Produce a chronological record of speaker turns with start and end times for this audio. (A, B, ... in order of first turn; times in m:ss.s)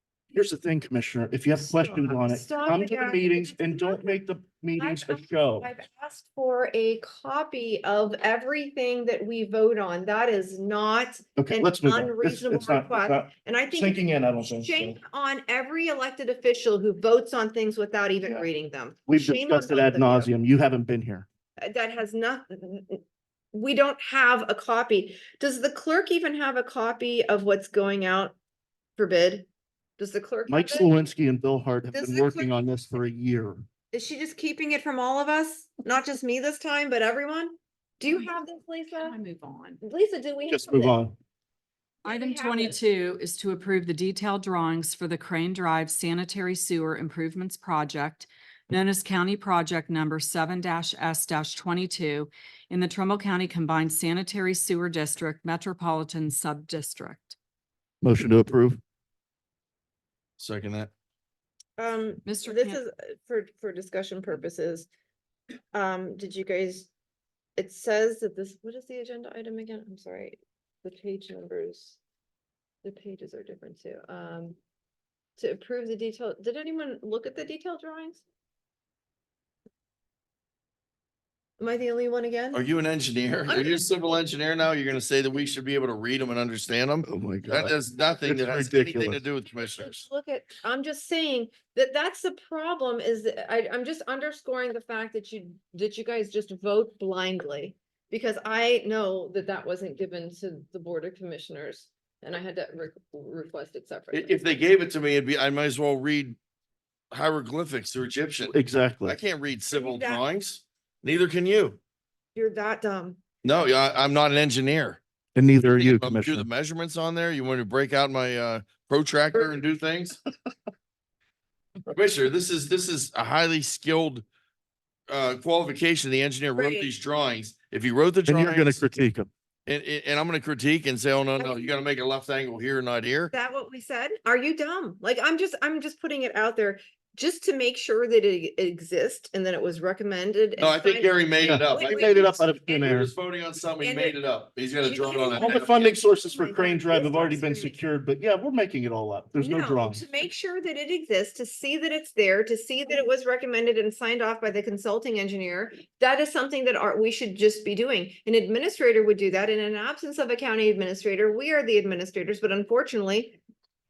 0:00.3-0:05.7 A
0:01.6-0:04.2 B
0:04.8-0:20.3 B
0:11.4-0:15.0 A
0:19.1-0:21.2 A
0:21.6-0:23.0 B
0:23.5-0:28.4 B
0:29.0-0:29.5 B
0:30.0-0:30.9 B
0:30.5-0:33.6 A
0:31.9-0:32.5 B
0:33.9-0:39.2 B
0:39.0-0:39.8 C
0:39.8-0:41.0 B
0:40.5-0:41.2 A
0:42.0-0:42.8 B
0:42.0-0:57.4 C
0:58.0-0:58.8 A
1:00.4-1:00.9 D
1:01.8-1:04.9 B
1:02.2-1:02.8 C
1:05.7-1:06.9 B
1:07.6-1:12.0 B
1:12.8-1:14.6 B
1:15.4-1:18.2 B
1:21.6-1:22.6 B
1:22.5-1:30.0 D
1:23.4-1:24.0 B
1:27.0-1:29.2 A
1:29.4-1:44.4 B
1:44.1-1:46.4 D
1:47.1-1:48.5 D
1:48.4-1:49.2 A
1:49.0-1:51.8 D
1:49.7-1:50.2 B
1:52.3-1:53.2 B
1:53.4-1:55.0 D
1:55.3-1:56.5 A
1:55.7-2:00.2 D
2:01.9-2:04.2 D
2:05.1-2:08.8 D
2:06.6-2:06.9 B
2:08.2-2:09.3 A
2:09.6-2:13.3 D
2:13.3-2:22.8 B
2:20.6-2:26.0 D
2:21.4-2:23.1 A
2:23.8-2:24.2 B
2:24.8-2:27.8 B
2:25.3-2:30.1 A
2:29.4-2:43.4 B